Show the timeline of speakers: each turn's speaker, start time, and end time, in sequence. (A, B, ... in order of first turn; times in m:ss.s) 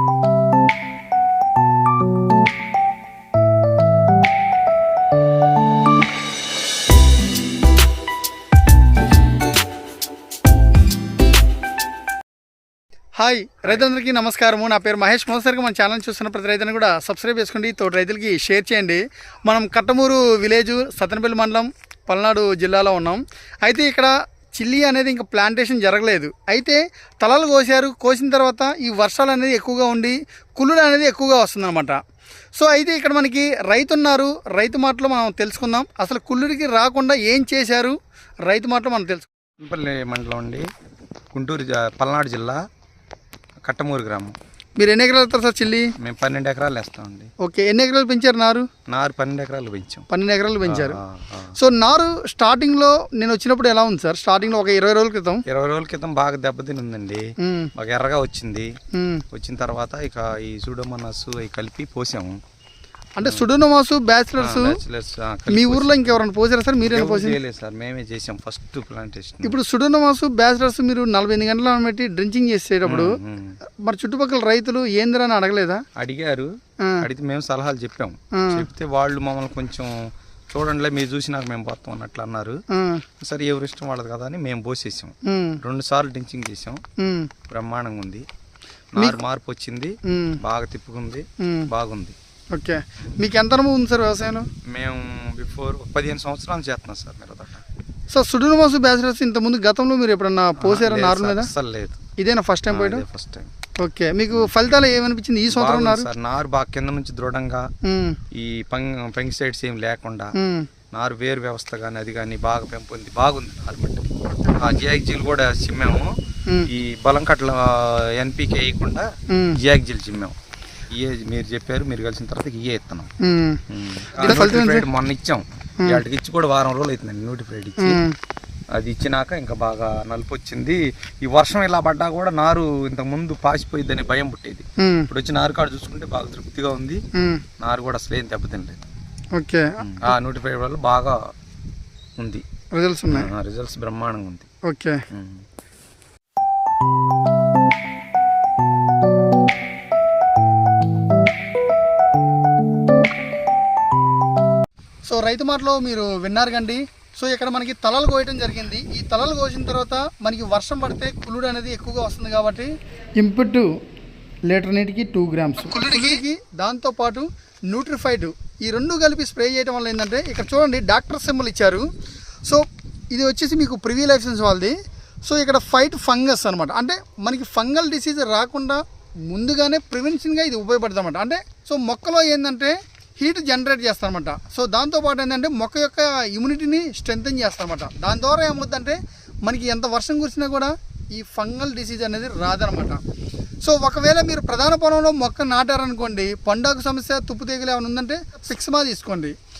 0:13.2-0:32.0 A
0:32.6-0:37.9 A
0:38.5-0:39.3 A
0:39.6-0:40.6 B
0:41.3-0:42.6 B
0:43.6-0:44.3 B
0:44.8-0:45.9 A
0:46.0-0:47.3 B
0:47.4-0:48.6 A
0:48.9-0:50.0 B
0:50.1-0:51.0 A
0:50.6-0:51.5 B
0:51.6-0:55.4 A
0:55.5-0:57.2 B
0:57.4-0:57.7 A
0:57.8-0:58.7 B
0:58.9-0:59.2 A
0:59.3-1:02.4 B
1:03.2-1:04.8 A
1:04.4-1:06.2 B
1:05.5-1:07.4 A
1:06.8-1:09.6 B
1:09.4-1:13.2 A
1:12.8-1:13.6 B
1:13.8-1:15.8 A
1:16.0-1:16.5 B
1:17.0-1:20.0 B
1:18.4-1:18.6 A
1:20.5-1:22.6 B
1:22.7-1:23.0 A
1:23.2-1:26.8 B
1:25.2-1:25.6 A
1:27.0-1:27.3 A
1:27.5-1:28.2 B
1:28.9-1:32.2 B
1:30.1-1:30.4 A
1:31.4-1:31.7 A
1:32.5-1:34.5 A
1:34.7-1:37.6 B
1:38.1-1:41.5 A
1:40.6-1:42.0 B
1:42.2-1:43.0 A
1:42.7-1:43.5 B
1:43.8-1:46.1 A
1:45.5-1:47.6 B
1:47.8-1:48.2 A
1:48.3-1:50.3 B
1:50.4-1:50.7 A
1:50.9-1:56.1 B
1:54.4-1:54.8 A
1:56.7-1:59.1 B
1:59.3-1:59.6 A
1:59.6-2:00.3 B
2:00.9-2:03.1 B
2:03.2-2:03.6 A
2:03.7-2:08.0 B
2:04.2-2:04.9 A
2:07.8-2:08.2 A
2:08.8-2:17.0 B
2:14.8-2:15.1 A
2:17.1-2:17.4 A
2:17.6-2:18.8 B
2:19.3-2:20.1 A
2:19.8-2:21.2 B
2:22.2-2:22.4 B
2:22.7-2:23.3 A
2:23.1-2:24.5 B
2:24.6-2:25.0 A
2:25.1-2:25.4 B
2:35.0-2:43.7 A
2:44.5-2:51.9 A
2:52.4-2:54.7 A
2:55.2-3:13.0 A
3:13.6-3:19.4 A